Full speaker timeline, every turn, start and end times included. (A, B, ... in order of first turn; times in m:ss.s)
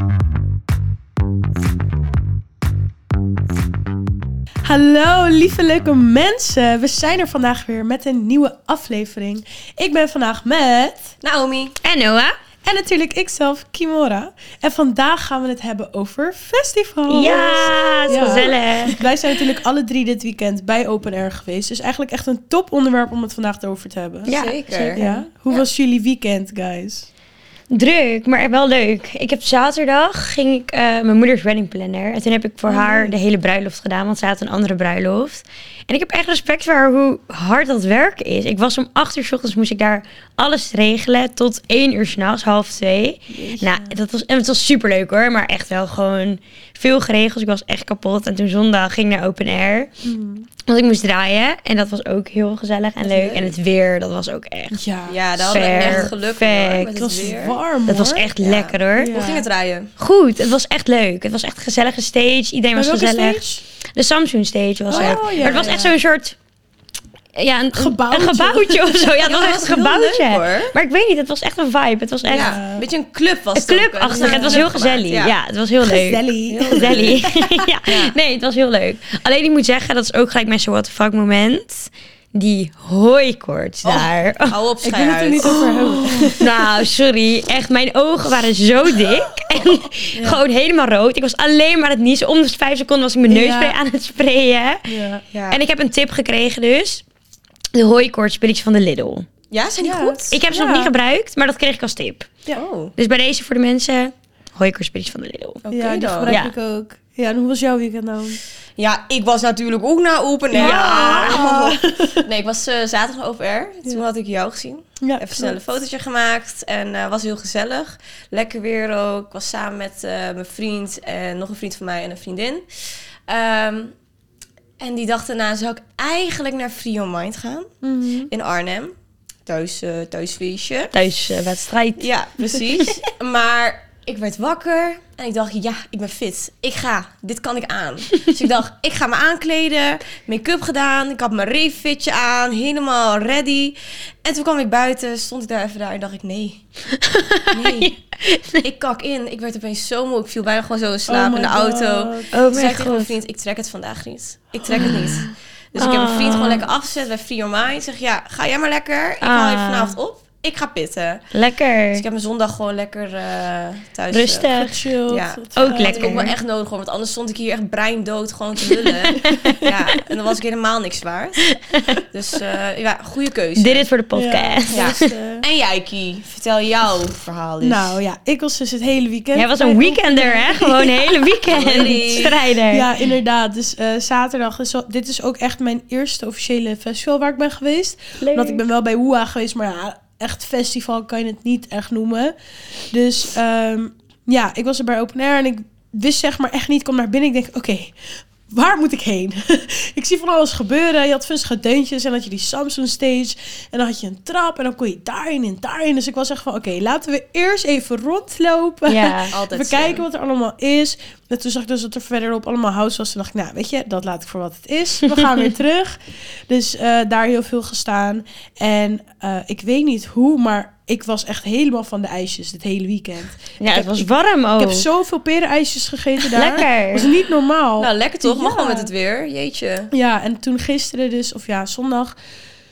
0:04.6-0:11.1 A
0:11.2-0:11.8 B
0:11.8-0:12.3 C
0:12.6-0:24.4 A
0:17.1-0:19.0 C
0:24.2-0:25.2 C
0:24.3-0:25.6 B
0:25.0-0:27.1 A
0:27.7-0:49.9 C
0:32.7-0:33.2 A
0:43.3-0:44.0 A
0:50.0-0:50.5 A
0:50.7-0:54.8 C
0:53.0-0:53.6 B
0:54.7-0:56.1 A
0:55.1-0:57.6 B
0:55.5-0:57.0 C
0:57.0-0:58.3 A
0:57.9-0:59.2 C
0:58.4-0:59.9 B
0:59.0-0:59.4 A
1:00.0-1:06.4 C
1:02.7-1:03.6 A
1:04.9-1:05.9 A
1:04.9-1:05.9 B
1:07.3-1:12.6 C
1:07.7-1:09.0 A
1:09.2-1:10.7 B
1:12.2-1:12.8 A
1:12.3-1:15.4 B
1:13.6-1:24.6 C
1:14.1-1:14.7 A
1:15.8-1:17.2 A
1:16.5-1:17.3 B
1:17.9-1:18.1 B
1:23.8-1:26.4 B
1:24.8-1:26.5 A
1:26.4-1:34.8 C
1:30.1-1:30.4 A
1:33.3-1:33.8 A
1:34.9-1:35.2 A
1:35.3-1:35.6 B
1:35.5-1:37.0 C
1:37.7-1:39.3 C
1:39.5-1:40.4 B
1:39.8-1:40.9 A
1:40.3-1:42.4 C
1:42.5-1:42.9 B
1:43.0-1:45.6 C
1:45.6-1:46.4 B
1:45.7-1:48.4 A
1:46.3-1:46.5 C
1:48.8-2:02.6 B
1:50.5-1:52.2 A
1:50.6-1:51.5 C
1:55.0-1:55.6 A
2:03.3-2:03.9 B
2:04.8-2:07.7 B
2:07.8-2:08.3 A
2:08.3-2:08.9 B
2:09.5-2:11.0 B
2:10.9-2:12.1 C
2:12.0-2:26.6 B
2:27.0-2:28.6 C
2:27.5-2:28.0 B
2:28.6-2:41.3 B
2:31.1-2:32.3 A
2:32.3-2:33.1 C
2:35.8-2:36.6 C
2:39.2-2:40.0 C
2:41.3-2:42.0 C
2:41.9-2:44.5 B
2:44.1-2:44.8 C
2:44.5-2:46.3 A
2:45.1-2:51.5 B
2:45.6-2:46.3 C
2:48.7-2:49.8 C
2:51.5-2:52.0 C
2:52.1-2:53.9 B
2:53.6-2:55.1 C
2:54.1-2:55.4 A
2:54.7-2:58.0 B
2:57.6-3:01.3 A
2:59.3-3:02.9 C
3:01.5-3:02.4 B
3:02.7-3:12.3 A
3:08.2-3:08.6 C
3:12.9-3:48.9 A
3:28.9-3:29.3 C
3:29.3-3:30.0 B
3:43.6-3:44.9 C
3:46.3-3:47.1 C
3:47.8-3:49.9 B
3:49.9-3:52.2 A